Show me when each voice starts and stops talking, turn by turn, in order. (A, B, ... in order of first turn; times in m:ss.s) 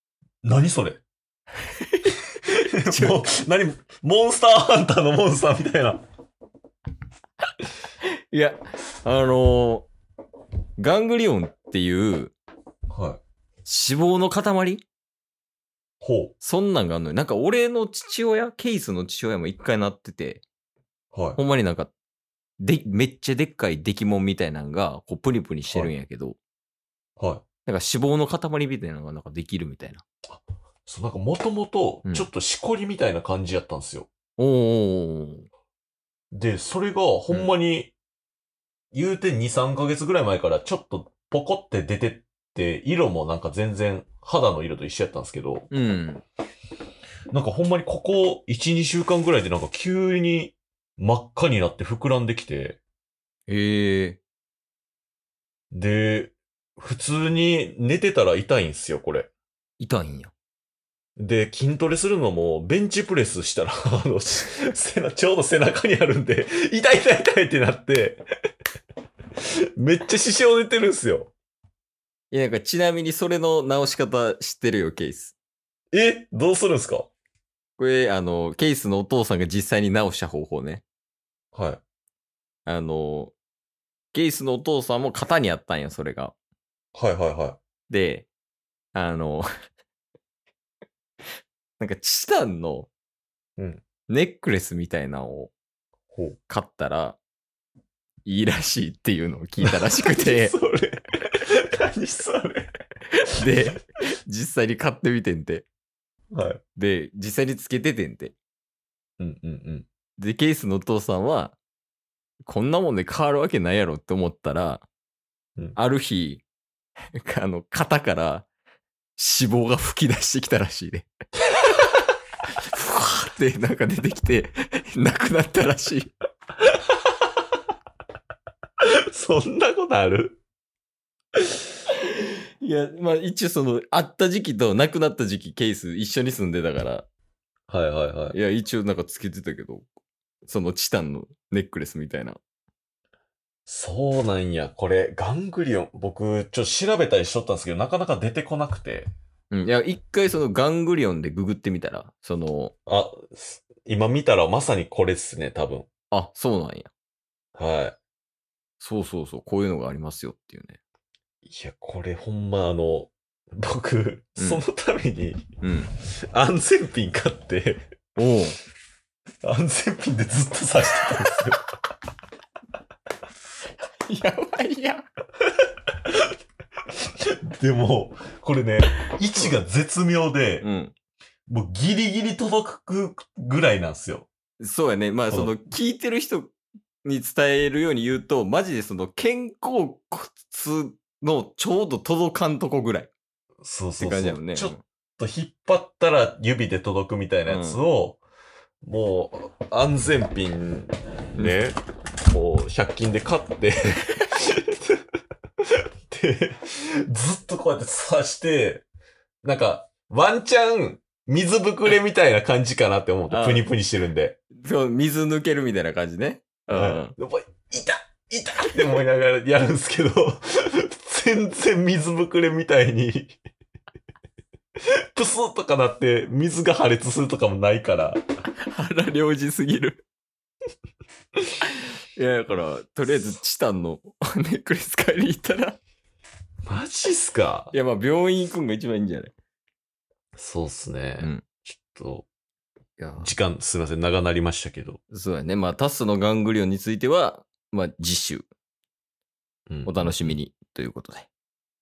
0:00.4-0:01.0 A
0:01.6-0:03.2 B
0:02.6-0:06.0 A
0:08.0-0:09.9 B
0:10.8-0:12.3 B
0:12.9-0:13.2 A
0:13.6-0:14.8 B
0:16.0-0:16.3 A
0:16.4-0:20.4 B
0:21.1-0:21.4 A
0:21.4-0:21.9 B
0:22.6-0:26.4 B
0:27.2-0:27.4 A
0:27.6-0:30.0 B
0:30.3-0:34.1 A
0:34.4-0:35.5 B
0:36.3-0:37.9 A
0:38.9-0:45.7 A
0:45.7-0:46.2 B
0:47.3-0:52.8 A
0:53.5-0:54.2 B
0:55.7-0:59.3 A
0:59.8-1:00.3 B
1:01.2-1:08.2 A
1:09.8-1:11.3 A
1:12.3-1:15.4 B
1:15.9-1:17.1 A
1:17.8-1:20.8 B
1:21.5-1:21.8 A
1:22.6-1:23.3 B
1:24.1-1:26.3 B
1:26.9-1:27.6 A
1:27.9-1:28.3 B
1:28.9-1:29.5 B
1:31.8-1:32.9 B
1:33.6-1:33.8 A
1:34.1-1:35.5 B
1:36.1-1:36.4 A
1:36.5-1:37.2 B
1:38.2-1:40.5 B
1:39.6-1:42.7 A
1:43.2-1:45.6 B
1:46.3-1:46.6 A
1:46.8-1:48.3 B
1:49.2-1:49.8 A
1:50.2-1:51.6 B
1:52.5-1:54.8 B
1:55.8-1:56.4 B
1:57.2-1:58.4 B
1:59.2-2:01.1 B
2:02.6-2:06.1 B
2:09.1-2:10.4 A
2:11.9-2:17.1 B
2:17.7-2:18.4 A
2:18.3-2:19.9 B
2:20.5-2:22.4 B
2:23.6-2:29.1 A
2:29.5-2:32.7 B
2:32.9-2:35.9 A
2:36.1-2:36.9 B
2:37.6-2:38.0 A
2:38.8-2:40.8 B
2:41.4-2:45.4 A
2:44.4-2:44.6 B
2:45.6-2:45.9 B
2:46.1-2:47.8 A
2:48.2-2:48.6 B
2:49.4-2:51.6 A
2:54.0-2:55.0 B
2:55.6-2:56.3 A
2:57.1-3:00.7 A
3:00.6-3:00.9 B
3:01.5-3:04.3 A
3:04.6-3:13.1 B
3:05.3-3:05.5 A
3:13.6-3:18.2 A
3:14.0-3:14.8 B
3:17.5-3:17.8 B
3:18.8-3:25.0 A
3:25.8-3:28.8 A
3:29.4-3:34.4 A
3:33.3-3:33.7 B
3:34.5-3:37.1 B
3:36.7-3:43.3 A
3:45.1-3:48.2 A
3:48.6-3:50.0 B
3:51.6-3:55.8 B
3:56.6-3:57.7 A
3:57.7-3:59.3 B
4:00.4-4:02.3 A
4:03.0-4:03.3 B
4:03.2-4:05.0 A
4:05.1-4:08.4 B
4:09.7-4:10.4 A
4:09.8-4:11.3 B